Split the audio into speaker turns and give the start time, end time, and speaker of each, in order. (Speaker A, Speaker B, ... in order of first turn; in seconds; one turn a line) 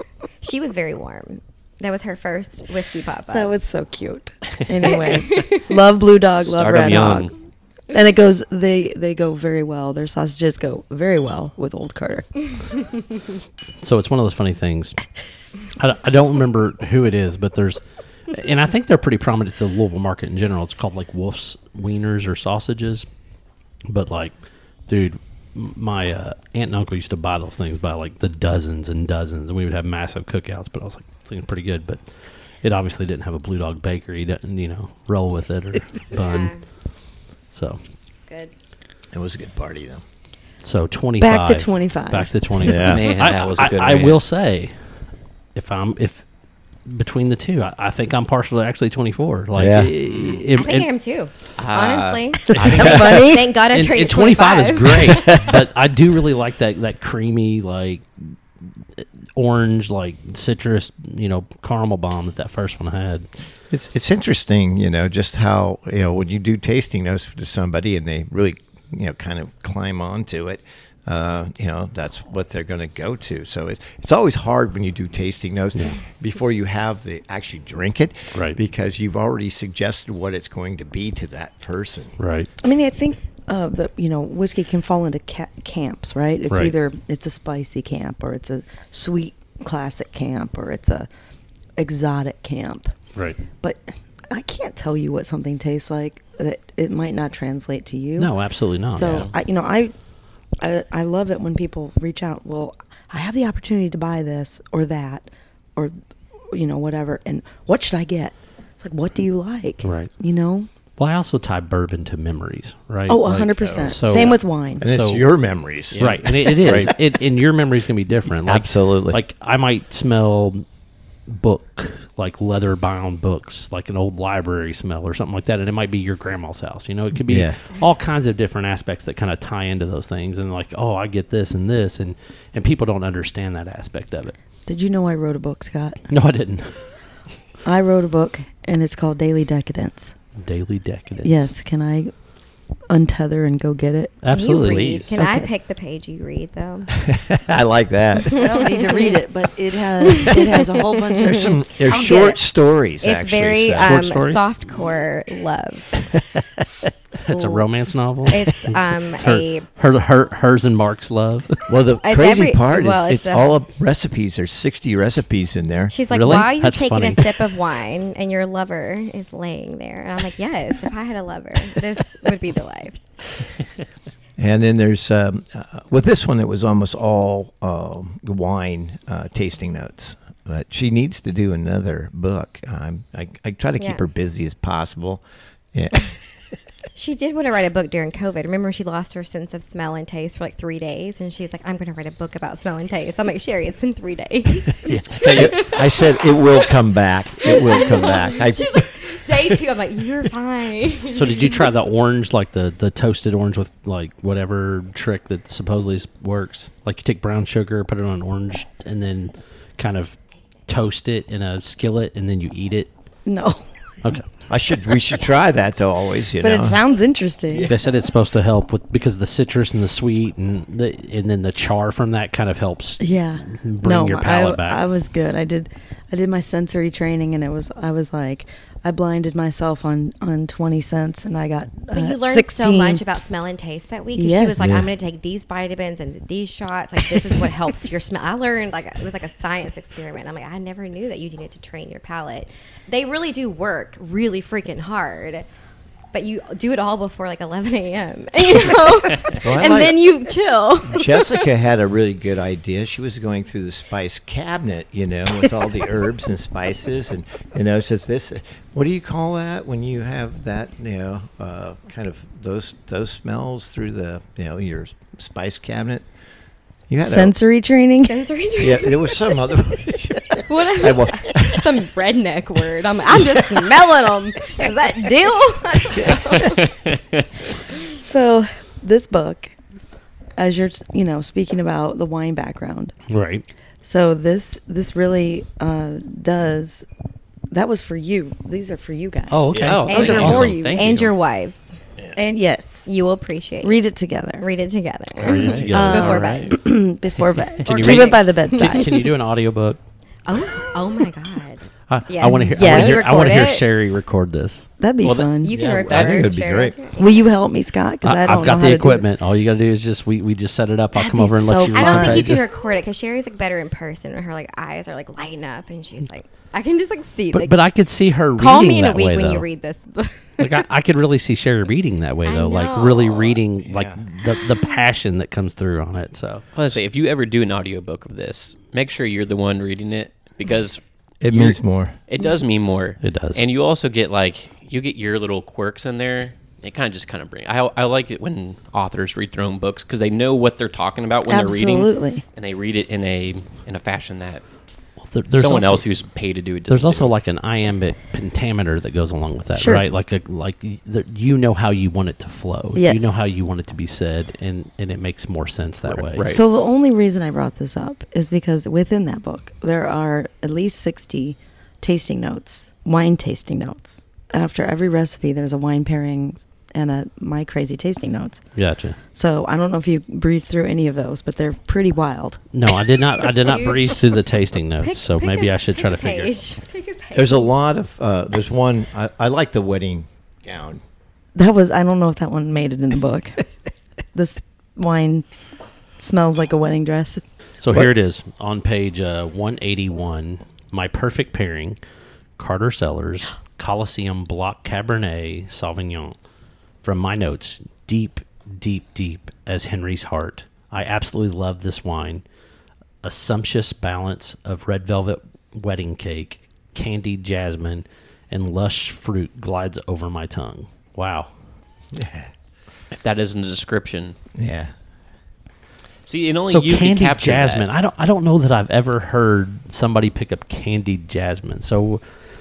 Speaker A: 0.4-3.5
Speaker B: 3.3-7.3
Speaker A: 4.8-5.6
Speaker C: 6.4-7.3
Speaker B: 7.9-12.4
Speaker D: 13.8-15.0
Speaker D: 15.8-23.1
Speaker D: 23.9-24.3
Speaker D: 24.9-32.0
Speaker D: 32.6-36.5
Speaker A: 36.1-36.6
Speaker D: 37.5-37.8
Speaker A: 38.2-38.5
Speaker E: 39.1-40.0
Speaker D: 40.6-44.8
Speaker B: 41.2-42.3
Speaker E: 42.6-43.1
Speaker C: 42.8-44.2
Speaker D: 45.5-46.2
Speaker D: 46.9-50.9
Speaker E: 49.5-49.9
Speaker C: 50.1-50.4
Speaker A: 50.5-55.4
Speaker C: 51.6-53.3
Speaker B: 52.5-53.6
Speaker E: 52.6-53.2
Speaker D: 53.5-58.4
Speaker E: 55.1-55.5
Speaker D: 59.0-63.3
Speaker E: 63.7-82.2
Speaker D: 78.3-78.6
Speaker D: 82.2-82.5
Speaker B: 82.6-91.1
Speaker B: 91.8-92.9
Speaker B: 93.6-98.3
Speaker D: 98.2-99.3
Speaker B: 98.9-99.9
Speaker B: 100.6-105.9
Speaker B: 106.5-110.7
Speaker D: 109.8-110.1
Speaker D: 111.0-115.2
Speaker B: 113.1-114.9
Speaker E: 114.8-117.0
Speaker C: 115.9-116.9
Speaker D: 116.0-120.7
Speaker E: 118.3-119.2
Speaker D: 121.3-134.3
Speaker E: 127.3-127.6
Speaker B: 134.7-136.1
Speaker D: 136.1-136.8
Speaker B: 137.7-140.1
Speaker D: 140.4-141.5
Speaker B: 141.2-142.1
Speaker B: 142.9-144.2
Speaker D: 144.2-145.2
Speaker A: 144.3-146.9
Speaker B: 145.1-145.5
Speaker E: 147.0-148.6
Speaker A: 148.3-149.2
Speaker B: 148.3-152.3
Speaker A: 150.0-152.3
Speaker E: 151.2-153.9
Speaker A: 153.0-155.9
Speaker D: 153.8-154.5
Speaker E: 156.1-156.6
Speaker D: 157.2-161.7
Speaker A: 157.3-157.6
Speaker A: 158.3-159.7
Speaker E: 161.7-166.0
Speaker A: 162.0-163.5
Speaker A: 165.9-173.0
Speaker D: 166.1-167.6
Speaker E: 174.4-186.2
Speaker A: 186.9-196.1
Speaker E: 194.8-198.9
Speaker C: 195.2-195.7
Speaker A: 197.4-201.7
Speaker D: 201.1-212.9
Speaker B: 213.3-213.6
Speaker E: 214.5-216.8
Speaker B: 216.4-217.7
Speaker E: 217.5-217.8
Speaker D: 217.6-224.8
Speaker B: 223.0-233.0
Speaker A: 231.9-245.5
Speaker B: 234.1-234.6
Speaker E: 234.6-234.9
Speaker A: 246.1-251.4
Speaker E: 249.4-250.1
Speaker E: 250.8-266.1
Speaker E: 266.9-267.4
Speaker B: 267.0-268.2
Speaker A: 268.0-269.2
Speaker E: 268.6-271.7
Speaker A: 270.4-276.7
Speaker E: 273.1-273.5
Speaker E: 275.9-276.2
Speaker C: 276.4-277.2
Speaker B: 278.0-279.5
Speaker B: 280.4-282.9
Speaker D: 283.1-283.4
Speaker B: 283.8-286.9
Speaker B: 287.5-290.9
Speaker D: 289.3-290.6
Speaker E: 289.5-289.9
Speaker C: 289.6-291.1
Speaker A: 289.9-291.7
Speaker B: 292.2-292.9
Speaker A: 292.9-293.8
Speaker B: 293.6-294.5
Speaker A: 294.4-296.6
Speaker D: 295.2-296.5
Speaker C: 295.3-296.5
Speaker B: 295.7-298.9
Speaker D: 297.6-299.8
Speaker A: 297.7-298.9
Speaker A: 300.3-303.6
Speaker D: 301.9-304.7
Speaker B: 302.6-303.1
Speaker B: 304.8-305.7
Speaker C: 305.0-306.3
Speaker A: 305.4-307.3
Speaker E: 305.6-306.8
Speaker B: 307.0-309.1
Speaker D: 308.0-312.4
Speaker B: 310.9-312.4
Speaker A: 311.7-317.6
Speaker D: 317.3-319.5
Speaker A: 318.4-320.6
Speaker D: 320.4-326.4
Speaker A: 322.2-323.4
Speaker E: 323.6-324.0
Speaker C: 326.5-344.4
Speaker E: 331.2-332.0
Speaker D: 333.0-333.4
Speaker B: 341.3-342.2
Speaker D: 345.0-345.9
Speaker C: 345.3-347.1
Speaker D: 346.7-356.3
Speaker B: 349.6-349.9
Speaker B: 352.8-353.0
Speaker C: 355.9-356.4
Speaker B: 356.3-368.4
Speaker D: 368.6-369.0
Speaker B: 369.1-372.4
Speaker D: 372.5-376.4
Speaker A: 373.3-374.2
Speaker A: 374.8-377.5
Speaker E: 377.1-380.8
Speaker B: 381.4-383.5
Speaker B: 384.1-385.3
Speaker B: 386.0-387.2
Speaker D: 387.6-391.8
Speaker D: 392.4-396.2
Speaker D: 396.8-402.2
Speaker D: 403.0-411.3
Speaker E: 411.9-412.3
Speaker C: 412.9-414.2
Speaker E: 414.4-414.7
Speaker C: 416.1-417.7
Speaker D: 416.5-422.0